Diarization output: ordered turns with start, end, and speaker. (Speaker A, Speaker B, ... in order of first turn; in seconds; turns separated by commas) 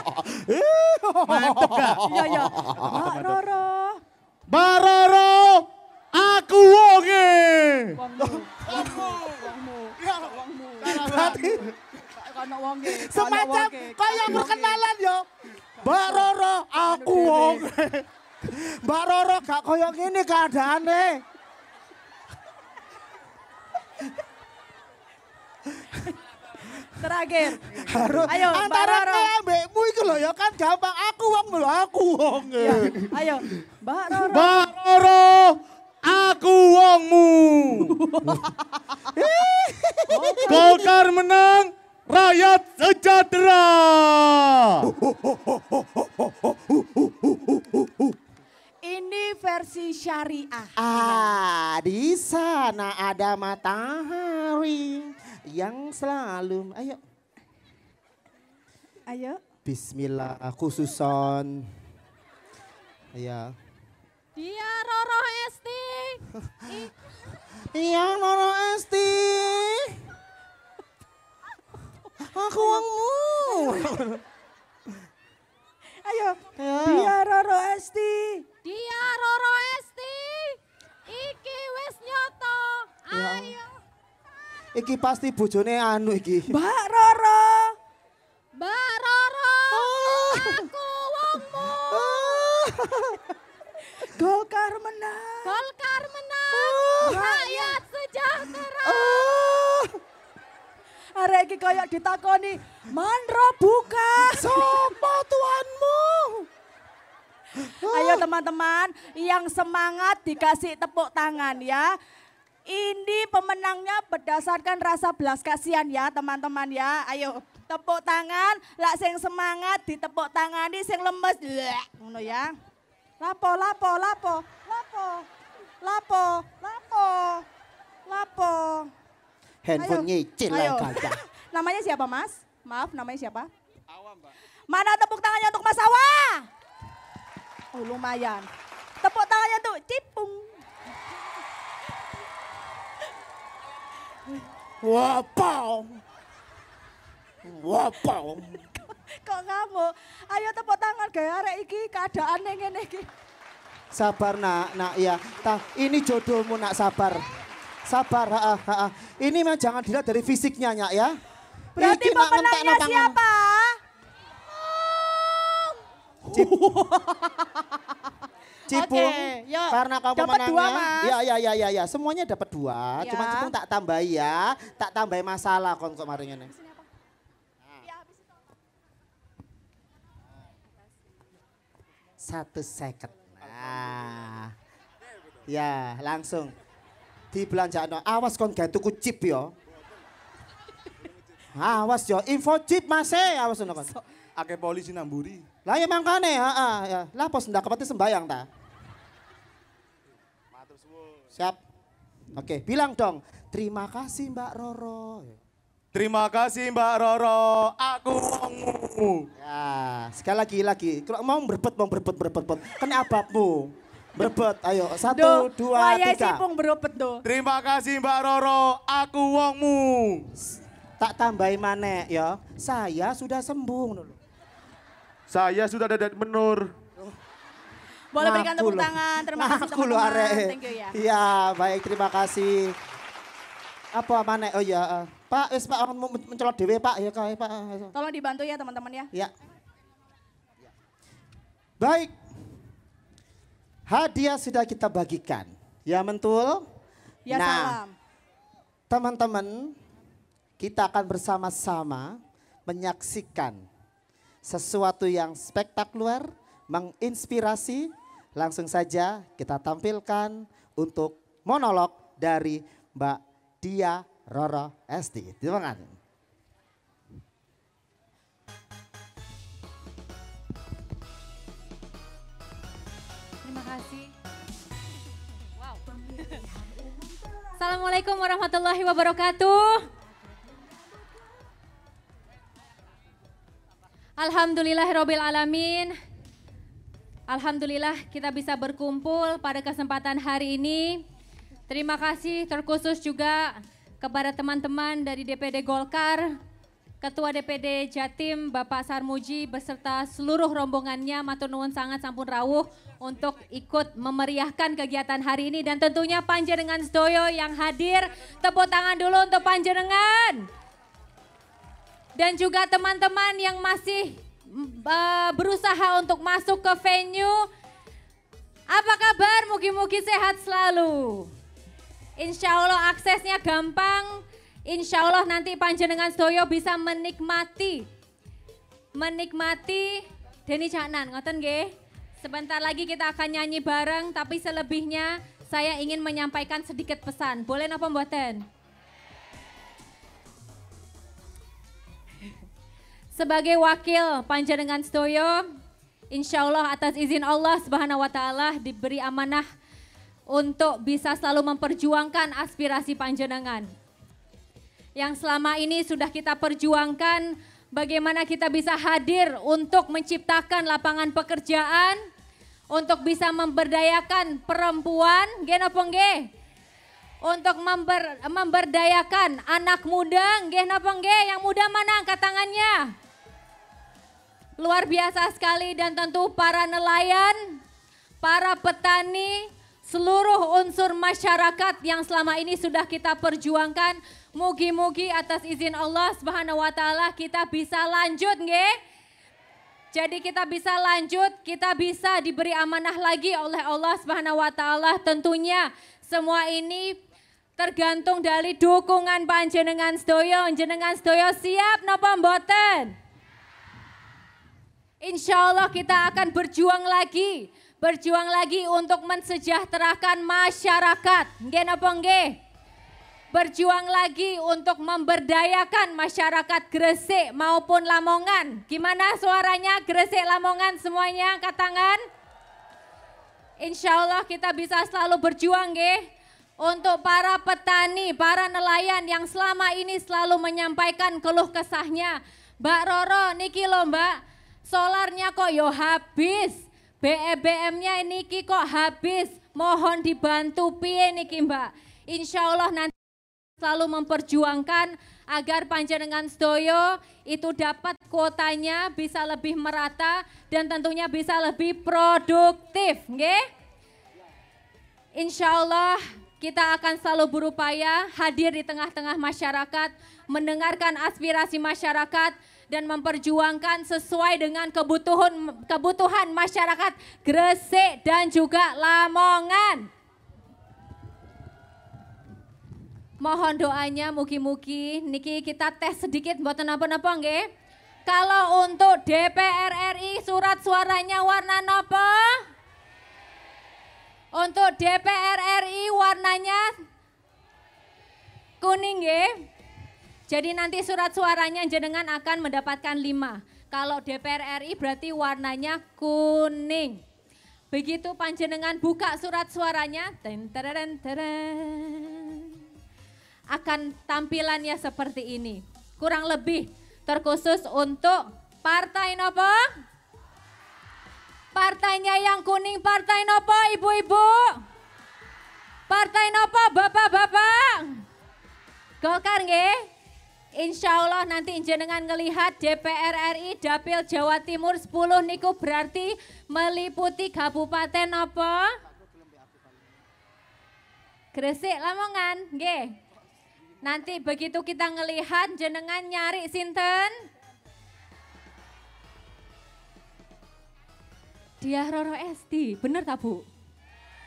Speaker A: 0.5-2.1, Speaker B: 1.2-2.9, Speaker C: 2.0-4.0, Speaker A: 2.9-3.3, Speaker A: 4.5-8.0, Speaker C: 8.0-11.6, Speaker B: 8.2-8.9, Speaker A: 8.8-9.0, Speaker A: 10.8-11.4, Speaker B: 10.9-11.7, Speaker C: 12.1-14.8, Speaker B: 12.8-15.2, Speaker B: 15.8-21.2, Speaker C: 15.8-16.2, Speaker C: 16.8-17.6, Speaker C: 26.9-29.3, Speaker B: 27.9-33.0, Speaker C: 32.6-34.7, Speaker A: 34.3-38.0, Speaker B: 39.1-40.9, Speaker C: 40.1-40.8, Speaker A: 40.5-48.0, Speaker C: 48.8-51.3, Speaker B: 50.8-57.0, Speaker C: 59.1-59.4, Speaker B: 59.6-61.7, Speaker B: 63.1-63.5, Speaker D: 64.3-66.9, Speaker B: 67.7-70.0, Speaker B: 72.3-74.2, Speaker C: 76.0-78.5, Speaker B: 76.6-77.1, Speaker D: 78.6-83.7, Speaker B: 83.1-83.5, Speaker B: 84.8-86.5, Speaker C: 86.5-87.7, Speaker D: 88.5-92.5, Speaker B: 89.7-90.7, Speaker B: 91.8-93.3, Speaker C: 94.0-95.6, Speaker D: 95.4-99.2, Speaker B: 96.5-97.2, Speaker C: 97.0-97.8, Speaker B: 98.8-100.0, Speaker C: 101.2-104.9, Speaker B: 104.3-106.5, Speaker B: 107.6-108.2, Speaker C: 107.8-111.9, Speaker C: 112.7-122.5, Speaker C: 123.2-125.3, Speaker C: 125.8-127.5, Speaker C: 128.1-128.9, Speaker B: 129.6-131.2, Speaker C: 129.8-133.5, Speaker C: 134.7-136.5, Speaker C: 137.7-138.5, Speaker C: 139.0-140.5, Speaker B: 144.8-146.0, Speaker B: 147.4-148.6, Speaker C: 149.2-153.1, Speaker B: 153.9-157.2, Speaker B: 157.9-161.1, Speaker C: 161.8-163.8, Speaker B: 161.8-163.2, Speaker C: 166.3-167.4, Speaker C: 168.7-171.1, Speaker B: 168.7-176.5, Speaker C: 173.0-173.5, Speaker C: 176.5-176.8, Speaker C: 177.8-178.1, Speaker B: 182.2-184.5, Speaker B: 185.5-186.5, Speaker B: 187.3-189.5, Speaker B: 191.5-193.9, Speaker A: 194.3-195.4, Speaker B: 195.7-198.5, Speaker A: 200.5-201.2, Speaker B: 202.3-205.4, Speaker A: 205.9-209.3, Speaker B: 209.4-216.4, Speaker C: 215.1-217.2, Speaker A: 217.2-220.3, Speaker B: 220.4-224.2, Speaker A: 225.3-226.7, Speaker C: 228.1-230.9, Speaker B: 228.2-232.7, Speaker B: 233.9-237.9, Speaker C: 237.9-239.1, Speaker B: 241.8-242.1, Speaker B: 243.9-246.6, Speaker C: 247.3-247.9, Speaker B: 247.3-247.8, Speaker B: 248.9-249.7, Speaker B: 250.6-252.2, Speaker B: 252.7-253.6, Speaker B: 254.4-266.0, Speaker D: 273.4-274.1, Speaker D: 277.6-279.9, Speaker D: 284.2-285.9, Speaker D: 287.3-291.0, Speaker D: 291.7-296.4, Speaker D: 297.0-310.4, Speaker D: 312.2-317.5, Speaker D: 318.7-321.3, Speaker D: 322.2-327.9, Speaker D: 328.9-338.4, Speaker D: 343.1-345.4, Speaker D: 346.1-349.4, Speaker D: 350.3-353.7, Speaker D: 355.0-362.0, Speaker D: 362.7-366.3, Speaker D: 367.2-372.9, Speaker D: 374.6-377.6, Speaker D: 378.2-388.7, Speaker D: 389.9-397.0, Speaker D: 397.6-402.9, Speaker D: 405.0-412.4, Speaker D: 413.3-422.0, Speaker D: 423.6-426.1, Speaker D: 426.6-443.0, Speaker D: 443.6-453.4, Speaker D: 455.1-469.9, Speaker D: 473.2-477.5, Speaker D: 478.1-482.4, Speaker D: 484.3-486.7, Speaker D: 488.6-489.3, Speaker D: 490.3-497.0, Speaker D: 497.7-502.6, Speaker D: 503.5-509.6, Speaker D: 511.5-514.6, Speaker D: 515.9-518.0, Speaker D: 519.0-519.9, Speaker D: 520.5-528.8, Speaker D: 531.3-532.9, Speaker D: 533.8-537.1, Speaker D: 541.6-543.5